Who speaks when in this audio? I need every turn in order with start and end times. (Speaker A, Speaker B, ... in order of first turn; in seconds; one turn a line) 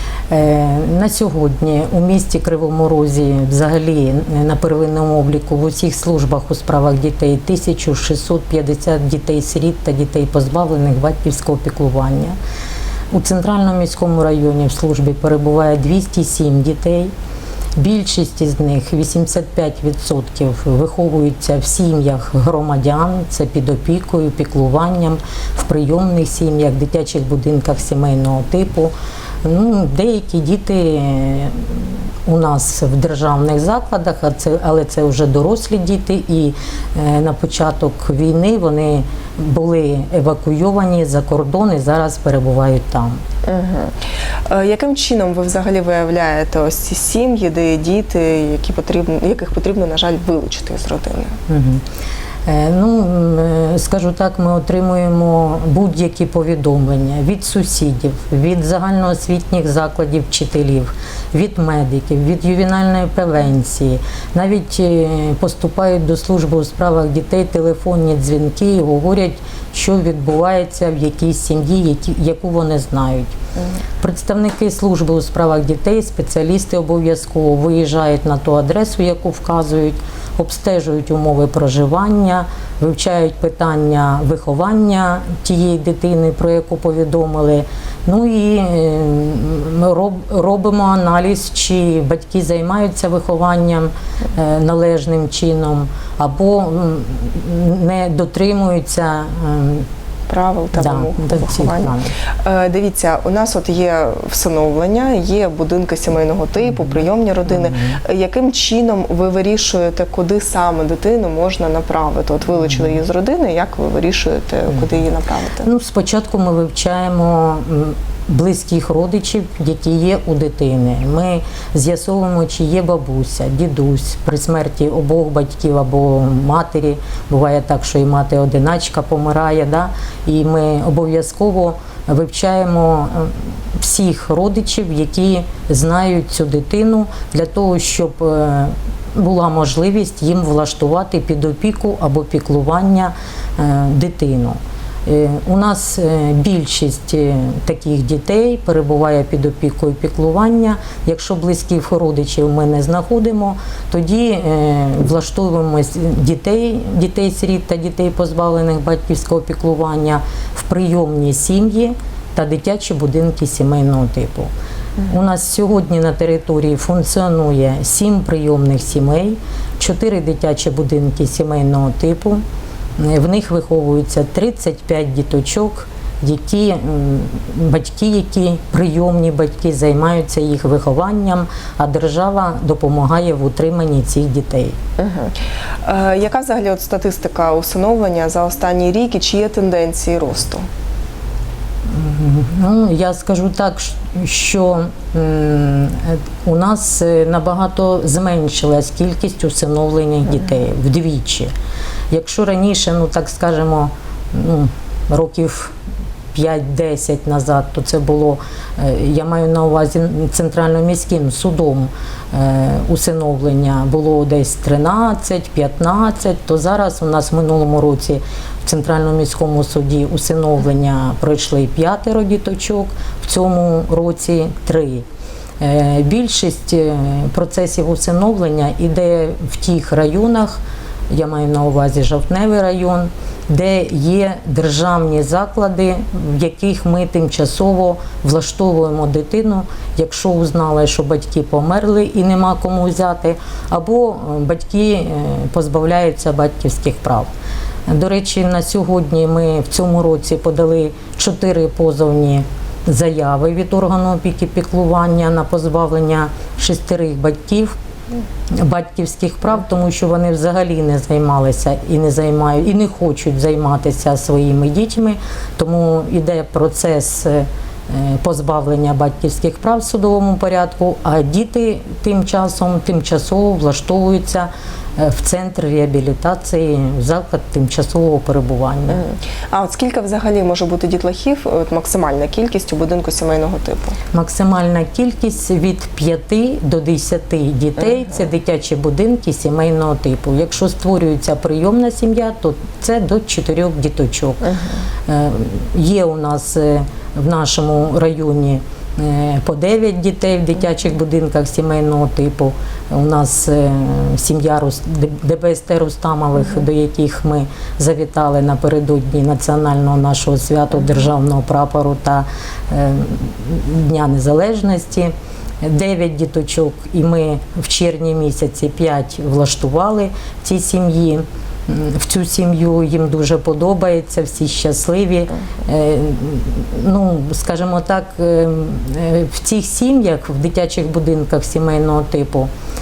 Speaker A: 0.3-12.4
Speaker A: 13.1-17.1
Speaker A: 17.8-28.9
Speaker A: 29.4-43.2
Speaker B: 43.5-43.9
Speaker B: 44.5-51.3
Speaker A: 51.5-51.8
Speaker A: 52.5-73.3
Speaker A: 74.0-99.9
Speaker B: 100.3-101.9
Speaker A: 100.8-102.1
Speaker B: 102.4-115.7
Speaker A: 106.8-108.0
Speaker A: 112.7-113.0
Speaker A: 114.7-115.0
Speaker A: 115.6-164.5
Speaker A: 165.1-172.4
Speaker A: 173.0-184.7
Speaker B: 185.0-190.6
Speaker A: 191.9-201.5
Speaker A: 202.1-205.7
Speaker A: 206.3-225.0
Speaker A: 225.6-247.3
Speaker A: 247.9-257.7
Speaker A: 258.5-279.0
Speaker B: 278.9-283.9
Speaker A: 284.1-294.4
Speaker B: 287.8-288.2
Speaker B: 294.4-294.8
Speaker A: 295.1-332.5